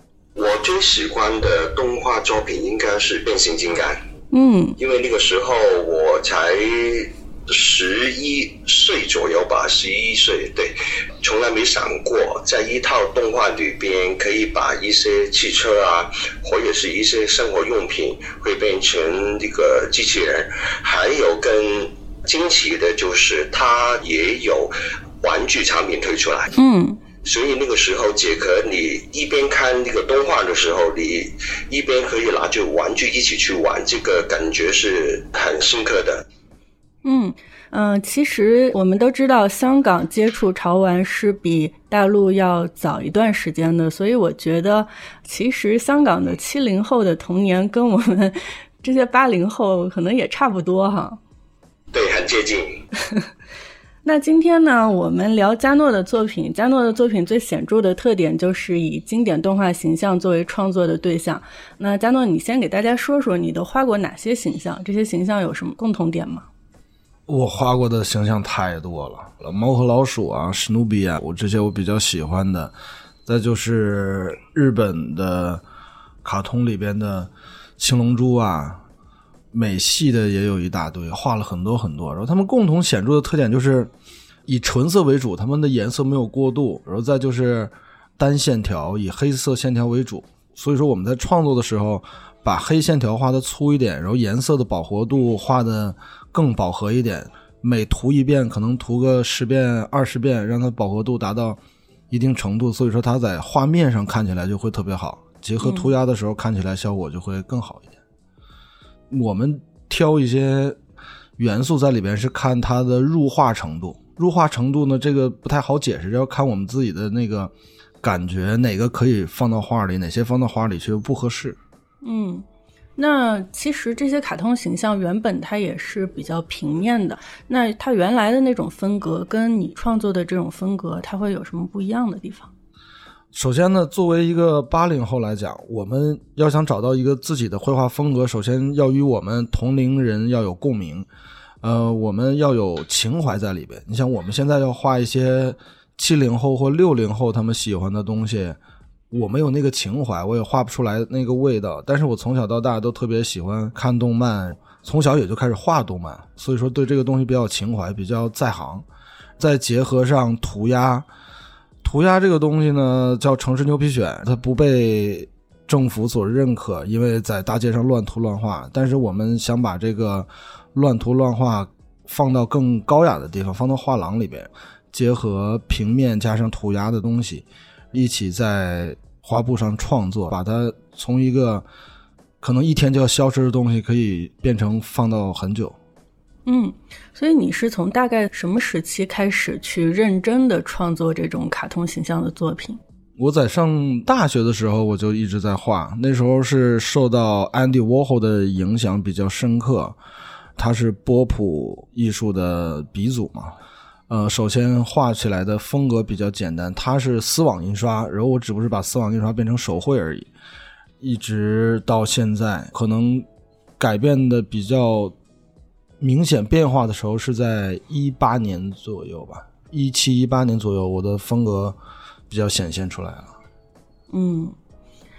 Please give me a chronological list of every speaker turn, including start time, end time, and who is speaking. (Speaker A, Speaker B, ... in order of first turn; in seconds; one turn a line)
Speaker A: 0.3-4.0
Speaker B: 4.3-4.8
Speaker A: 4.8-26.5
Speaker B: 26.6-27.0
Speaker A: 27.2-36.2
Speaker B: 37.0-51.2
Speaker A: 51.9-52.8
Speaker B: 54.0-66.5
Speaker C: 67.3-72.7
Speaker C: 73.3-75.6
Speaker C: 76.2-78.8
Speaker C: 79.5-83.9
Speaker C: 84.5-108.0
Speaker B: 105.6-105.9
Speaker C: 109.1-110.8
Speaker C: 111.4-121.6
Speaker B: 122.0-122.5
Speaker B: 123.0-132.5
Speaker C: 133.3-141.1
Speaker C: 141.6-148.6
Speaker C: 149.1-158.8
Speaker C: 159.4-161.1
Speaker C: 161.8-181.7
Speaker C: 182.4-185.8
Speaker B: 186.5-192.8
Speaker C: 193.2-200.0
Speaker C: 200.6-203.6
Speaker C: 204.1-210.3
Speaker C: 211.0-213.3
Speaker C: 213.8-215.2
Speaker C: 216.0-221.8
Speaker C: 222.3-223.3
Speaker B: 224.1-224.6